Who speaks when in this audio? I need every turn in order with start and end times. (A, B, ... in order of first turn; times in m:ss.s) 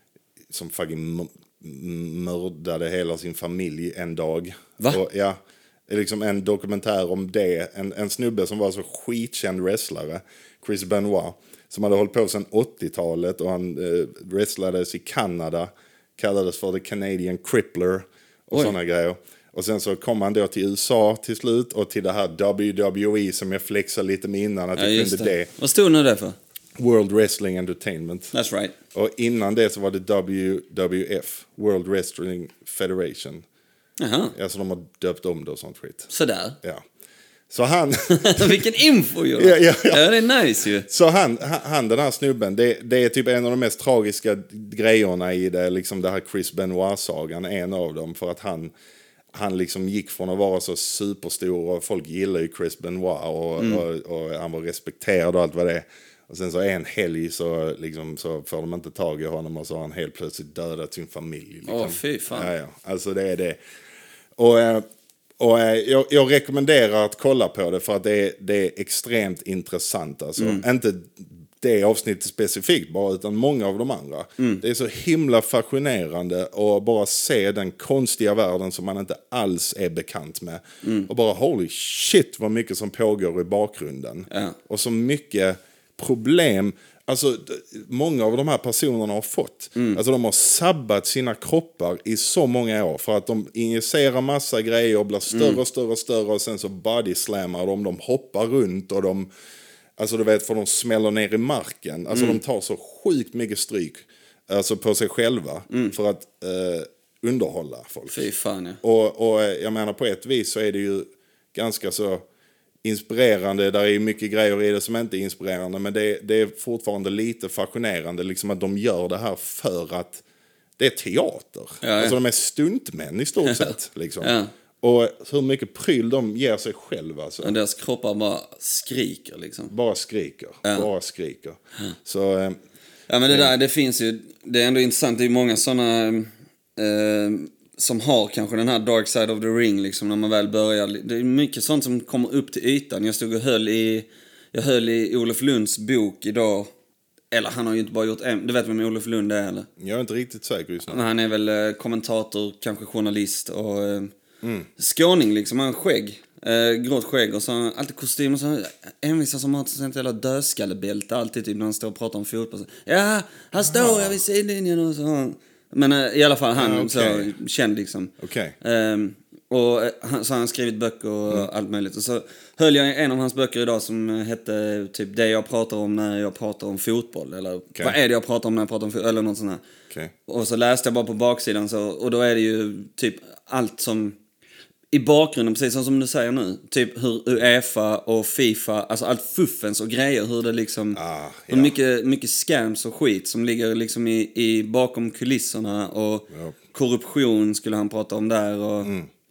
0:00.5-0:25.5 A
0:24.8-0:26.4 B
0:26.8-0:28.3 A
0:28.3-0:28.7 B
0:28.9-0:33.4 A
0:34.0-0:34.3 B
0:34.3-0:36.1 A
0:36.1-0:36.6 B
0:37.5-0:38.6 A
0:38.1-0:40.9 B
0:39.4-0:40.2 A
0:40.9-0:48.7 A
0:49.3-1:03.6 A
0:53.6-0:53.8 B
1:01.7-1:02.5 B
1:04.4-1:04.8 A
1:05.4-1:39.3 A
1:10.4-1:10.6 B
1:20.8-1:21.1 B
1:24.3-1:24.6 B
1:35.3-1:35.6 B
1:40.0-1:48.3 A
1:42.1-1:42.4 B
1:45.7-1:46.0 B
1:48.1-1:48.8 B
1:48.8-1:52.2 A
1:52.8-2:00.2 A
2:00.8-2:07.6 A
2:01.8-2:02.2 B
2:03.4-2:04.5 B
2:07.4-2:09.7 B
2:09.7-2:12.6 A
2:13.1-2:26.7 B
2:27.3-2:29.7 B
2:29.8-2:31.0 A
2:30.9-2:34.1 B
2:34.4-2:34.7 A
2:34.8-2:59.6 B
2:43.6-2:44.2 A
2:46.6-2:47.3 A
2:48.2-2:48.6 A
3:00.3-3:04.2 B
3:04.9-3:11.0 B
3:10.9-3:11.8 A
3:11.5-3:18.9 B
3:18.8-3:19.1 A